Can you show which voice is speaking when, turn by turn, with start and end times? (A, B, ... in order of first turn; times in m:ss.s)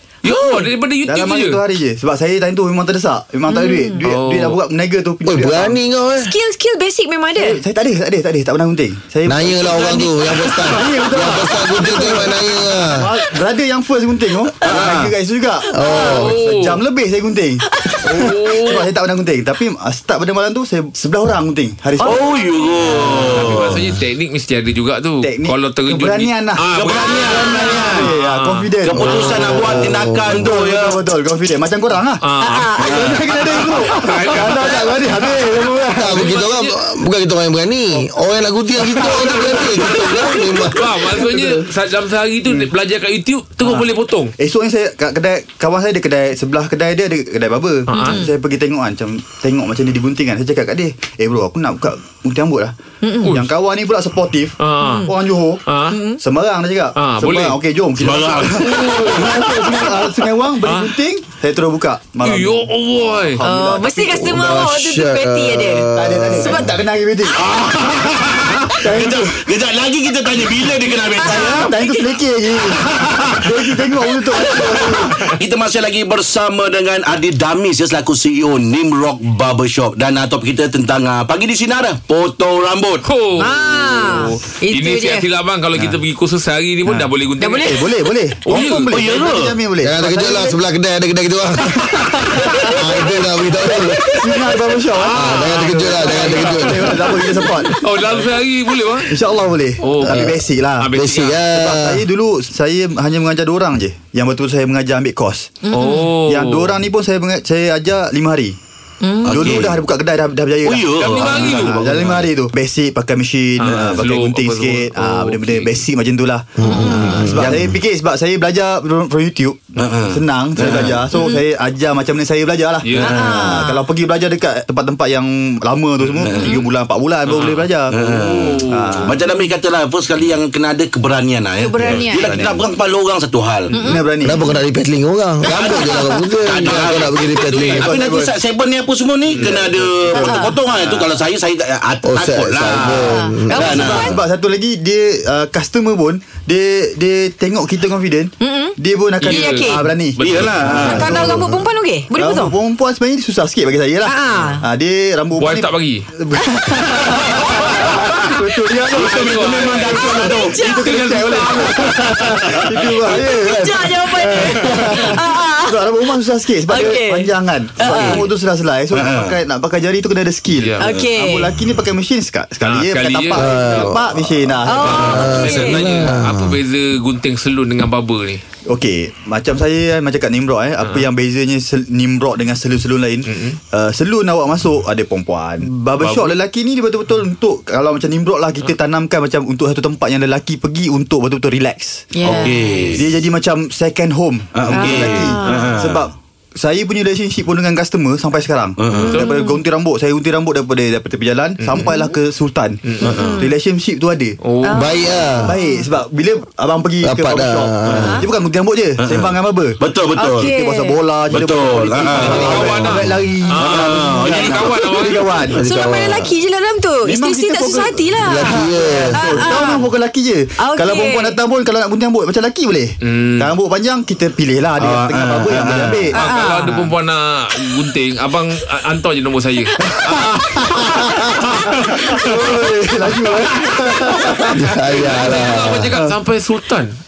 0:00.2-0:01.6 A
0:01.1-0:05.8 B
0:03.5-0:04.0 C
0:04.0-0:04.6 A
0:05.2-0:06.3 D
0:06.2-0:07.6 C
0:07.4-0:22.2 B
0:09.3-0:13.1 D
0:09.8-0:11.1 C
0:14.6-0:15.1 E
0:15.7-0:16.3 C
0:15.7-0:16.3 D
0:16.1-0:16.8 A
0:17.8-0:18.1 C
0:18.1-0:18.9 A
0:22.0-0:23.7 E
0:22.4-0:22.7 C
0:23.0-0:29.6 A
0:25.2-0:32.2 B
0:26.7-0:28.1 E
0:28.8-0:31.0 E
0:29.1-0:30.5 D
0:32.2-0:35.4 A
0:32.4-0:33.0 C
0:32.8-0:36.3 B
0:32.9-0:33.2 E
0:36.0-0:41.1 D
0:36.1-0:36.8 A
0:38.8-0:40.3 B
0:38.9-0:44.3 A
0:41.1-0:41.6 B
0:42.4-0:42.7 B
0:43.6-0:52.8 B
0:47.9-0:48.2 A
0:47.9-0:48.3 C
0:53.0-0:53.4 C
0:53.3-0:55.6 B
0:54.6-0:55.1 A
0:54.8-0:55.1 C
0:55.7-0:56.0 A
0:55.9-0:56.2 C
0:56.2-1:04.5 B
0:57.0-0:57.6 A
0:58.0-1:00.0 E
1:00.6-1:01.0 A
1:02.2-1:03.4 A
1:03.4-1:06.8 C
1:04.2-1:06.7 D
1:06.0-1:07.5 B
1:07.3-1:11.7 E
1:08.8-1:09.5 B
1:10.9-1:12.2 C
1:11.2-1:15.3 B
1:12.8-1:13.8 E
1:14.6-1:23.1 E
1:23.1-1:27.9 A
1:23.4-1:25.3 C
1:26.9-1:30.6 B
1:27.4-1:27.9 C
1:28.4-1:29.1 A
1:28.6-1:29.6 E
1:29.8-1:34.4 D
1:31.8-1:33.0 B
1:33.7-1:38.3 B
1:35.0-1:39.2 A
1:35.1-1:37.2 D
1:39.0-1:40.9 B
1:39.8-1:41.4 A
1:40.0-1:40.4 D
1:40.9-1:42.0 D
1:41.5-1:45.6 B
1:45.6-1:46.1 C
1:45.7-1:46.8 A
1:46.2-1:48.6 B
1:49.0-1:49.6 C
1:49.2-1:49.8 E
1:49.3-2:09.2 B
1:50.6-1:52.2 E
1:51.0-1:52.2 A
1:53.6-1:55.8 A
1:53.6-1:54.0 E
1:56.6-1:57.7 D
1:56.6-1:57.3 C
1:57.0-1:57.3 A
1:59.8-2:01.0 E
2:01.1-2:01.4 C
2:02.8-2:03.5 A
2:03.0-2:03.9 C
2:06.2-2:06.6 E
2:06.3-2:06.6 C
2:07.3-2:09.2 A
2:07.9-2:13.7 E
2:11.6-2:12.4 C
2:11.8-2:12.6 B
2:13.7-2:14.1 C
2:13.7-2:14.4 B
2:14.2-2:17.9 D
2:15.4-2:24.1 E
2:15.5-2:15.9 B
2:17.3-2:17.9 A
2:17.6-2:18.3 B
2:19.3-2:21.0 B
2:20.1-2:20.6 C
2:22.0-2:23.9 D
2:23.0-2:24.2 C
2:23.6-2:31.6 B
2:28.4-2:30.0 C
2:29.2-2:31.3 A
2:30.2-2:31.2 E
2:30.7-2:32.6 C
2:32.1-2:55.5 B
2:34.0-2:34.6 C
2:35.4-2:36.1 A
2:37.2-2:38.2 A
2:38.0-2:40.6 E
2:38.8-2:42.5 A
2:39.8-2:41.0 C
2:42.0-2:42.9 E
2:43.1-2:46.0 C
2:44.4-2:45.0 A
2:46.7-2:48.3 C
2:48.9-2:49.4 E
2:50.6-2:50.9 A
2:50.8-2:51.5 C
2:50.8-2:51.1 E
2:52.6-2:54.0 A
2:53.3-2:54.0 D
2:54.6-2:55.9 C
2:54.7-2:58.4 A
2:55.0-2:56.6 D
2:58.7-3:12.3 B
3:00.8-3:01.1 A
3:03.3-3:03.6 A
3:06.0-3:06.4 A
3:12.1-3:13.0 C
3:12.2-3:13.1 E
3:12.9-3:24.4 B
3:14.5-3:16.1 E
3:14.7-3:15.8 C
3:18.8-3:19.2 E
3:19.0-3:19.4 A
3:19.1-3:19.6 C
3:21.6-3:21.9 A
3:21.8-3:22.1 C
3:22.8-3:23.3 A
3:23.0-3:23.4 E
3:23.0-3:23.6 C
3:24.4-3:24.9 A
3:24.6-3:25.9 C
3:24.8-3:25.5 D
3:25.5-3:35.6 B
3:27.0-3:28.2 D
3:27.9-3:28.3 C
3:29.0-3:30.5 E
3:30.2-3:31.0 C
3:31.3-3:32.8 E
3:32.2-3:35.3 A
3:33.6-3:35.2 E
3:35.5-3:36.3 D
3:35.5-3:39.9 C
3:37.0-3:46.9 B
3:38.2-3:39.4 D
3:40.6-3:41.4 C
3:43.0-3:43.5 A
3:44.8-3:46.1 E
3:46.1-3:46.8 C
3:46.1-3:52.5 A
3:49.8-3:56.2 B
3:54.5-3:56.0 D
3:54.8-3:57.0 A